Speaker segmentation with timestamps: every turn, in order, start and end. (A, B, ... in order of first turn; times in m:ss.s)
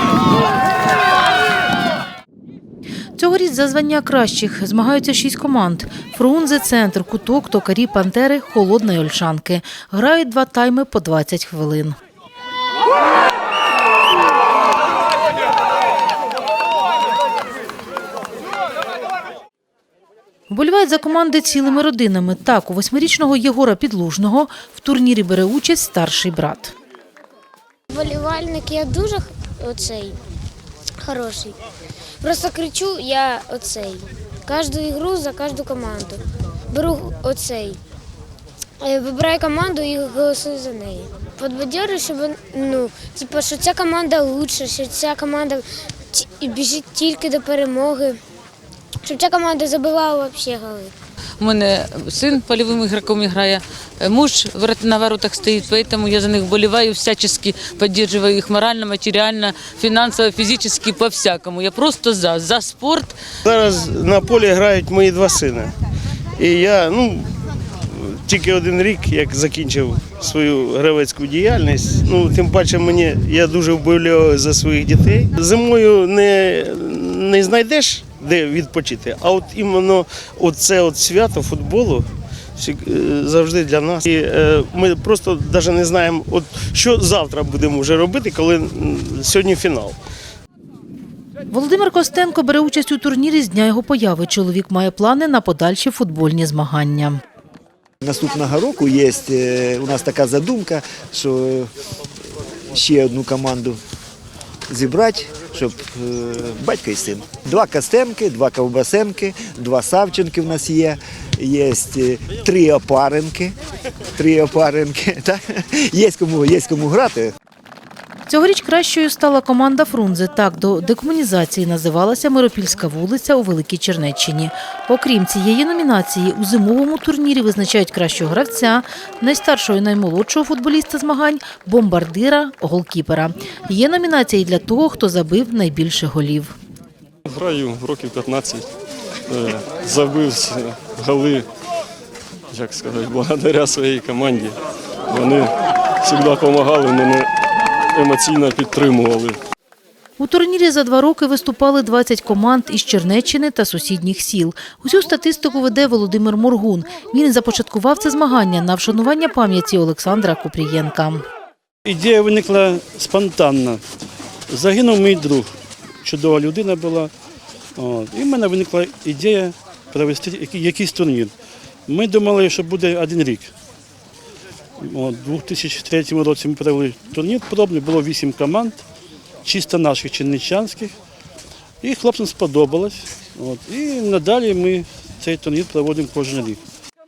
0:03.2-0:12.0 A
0:20.5-0:26.7 A
0:27.9-0:30.2 B
0:31.0-0:31.6 B
0:32.2-0:37.8 B
0:38.8-0:48.2 B
0:49.0-0:50.9 B
0:51.4-1:03.2 C
1:03.4-1:05.7 D
1:06.4-1:30.0 D
1:31.5-1:37.2 A
1:38.0-1:41.7 E
1:42.7-1:43.8 E
1:44.7-1:53.6 E
1:54.2-1:57.3 E
1:58.3-2:16.5 A
2:17.3-2:18.7 F
2:19.3-2:21.5 F
2:22.5-2:27.3 F
2:27.9-2:29.4 F
2:30.2-2:41.2 A
2:41.8-2:43.8 G
2:44.5-2:45.5 G
2:46.0-2:47.1 G
2:47.8-2:51.3 G
2:51.9-2:53.5 G
2:54.8-2:58.8 G
2:59.4-3:00.9 G
3:01.8-3:06.6 G